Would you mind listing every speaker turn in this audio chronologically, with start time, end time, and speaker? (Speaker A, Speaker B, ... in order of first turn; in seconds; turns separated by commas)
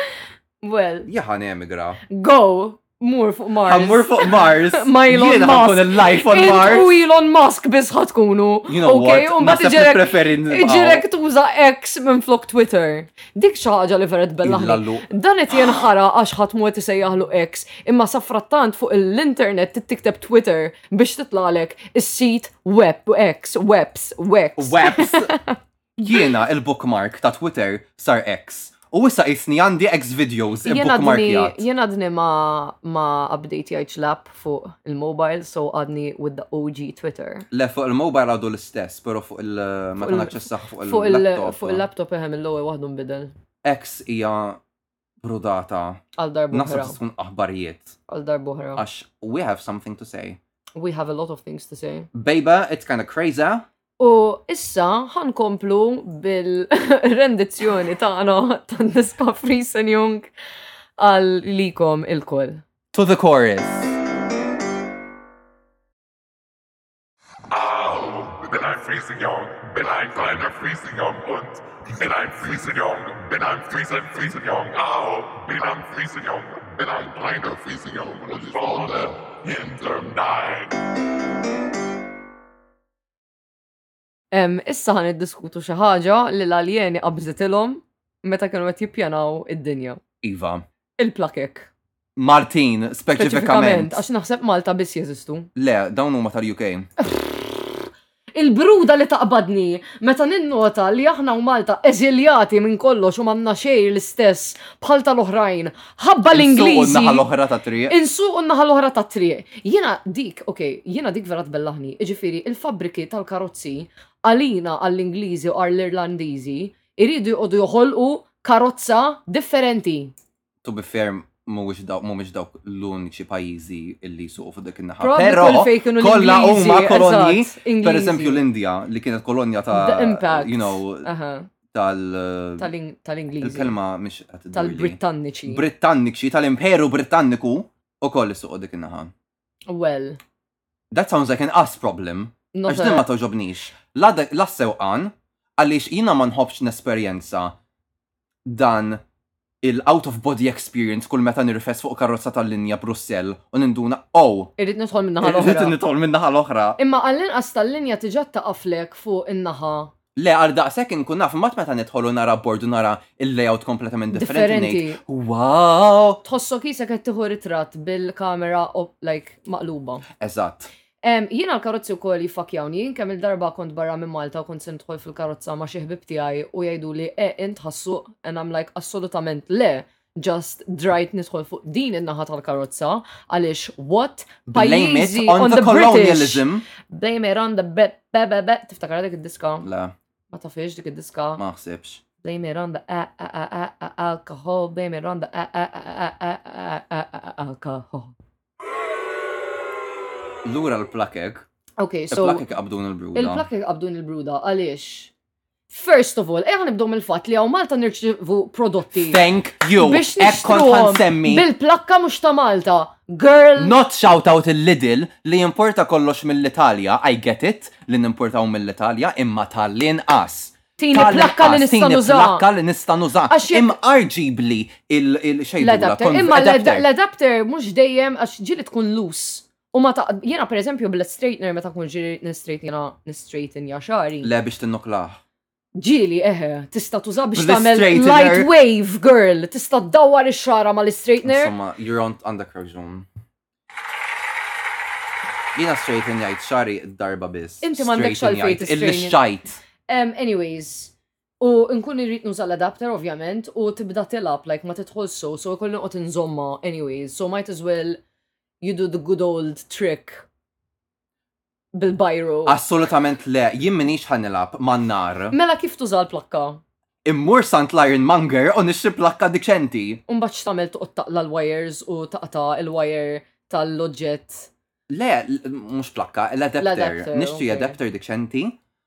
Speaker A: 0.6-1.1, Speaker B: 1.1-2.0, Speaker A: 2.1-25.6, Speaker B: 3.6-7.0, Speaker B: 8.7-11.1, Speaker B: 14.4-15.1, Speaker B: 24.6-25.4, Speaker B: 26.0-31.6, Speaker A: 30.6-37.5, Speaker B: 37.5-41.9, Speaker A: 40.0-43.3, Speaker B: 43.6-44.6, Speaker B: 45.2-46.0, Speaker A: 46.2-47.0, Speaker B: 46.5-48.0, Speaker A: 48.1-48.8, Speaker B: 48.8-50.4, Speaker A: 50.8-52.1, Speaker B: 52.1-53.7, Speaker A: 54.0-60.3, Speaker A: 61.0-62.6, Speaker B: 62.9-64.0, Speaker C: 67.5-80.8, Speaker A: 84.3-90.0, Speaker B: 90.2-90.7, Speaker A: 91.0-91.7, Speaker B: 92.2-94.0, Speaker A: 93.2-95.5, Speaker B: 95.5-96.9, Speaker A: 98.3-107.3, Speaker B: 106.3-107.9, Speaker A: 107.9-120.1, Speaker B: 120.6-131.1, Speaker A: 125.0-128.4, Speaker A: 129.7-131.5, Speaker B: 131.7-132.7, Speaker A: 132.6-133.7, Speaker B: 133.4-139.1, Speaker A: 134.5-135.6, Speaker A: 139.7-140.2, Speaker B: 140.9-147.6, Speaker A: 142.5-143.1, Speaker B: 148.5-149.0, Speaker B: 149.6-154.5, Speaker A: 154.6-155.8, Speaker B: 155.2-156.8, Speaker A: 156.8-159.9, Speaker B: 160.2-166.2, Speaker A: 164.1-165.0, Speaker A: 166.2-170.1, Speaker B: 170.2-170.7, Speaker A: 171.0-189.7, Speaker B: 184.5-186.7, Speaker B: 189.6-189.9, Speaker A: 190.3-191.4, Speaker B: 191.4-192.0, Speaker A: 192.2-198.1, Speaker B: 200.4-201.5, Speaker A: 201.8-202.5, Speaker B: 202.1-203.4, Speaker A: 203.1-205.1, Speaker A: 205.7-209.2, Speaker B: 208.9-211.5, Speaker A: 209.8-213.8, Speaker B: 213.6-226.9, Speaker A: 220.8-222.5, Speaker A: 223.3-223.8, Speaker A: 225.6-234.3, Speaker B: 234.2-235.2, Speaker A: 235.8-241.5, Speaker B: 237.3-238.5, Speaker B: 241.2-243.1, Speaker B: 245.6-249.6, Speaker A: 247.6-249.2, Speaker A: 249.9-258.0, Speaker A: 258.6-260.3, Speaker A: 261.7-262.6, Speaker B: 262.5-265.4, Speaker A: 265.3-266.6, Speaker B: 267.1-270.0, Speaker A: 270.1-274.5, Speaker B: 274.9-278.6, Speaker A: 276.6-277.8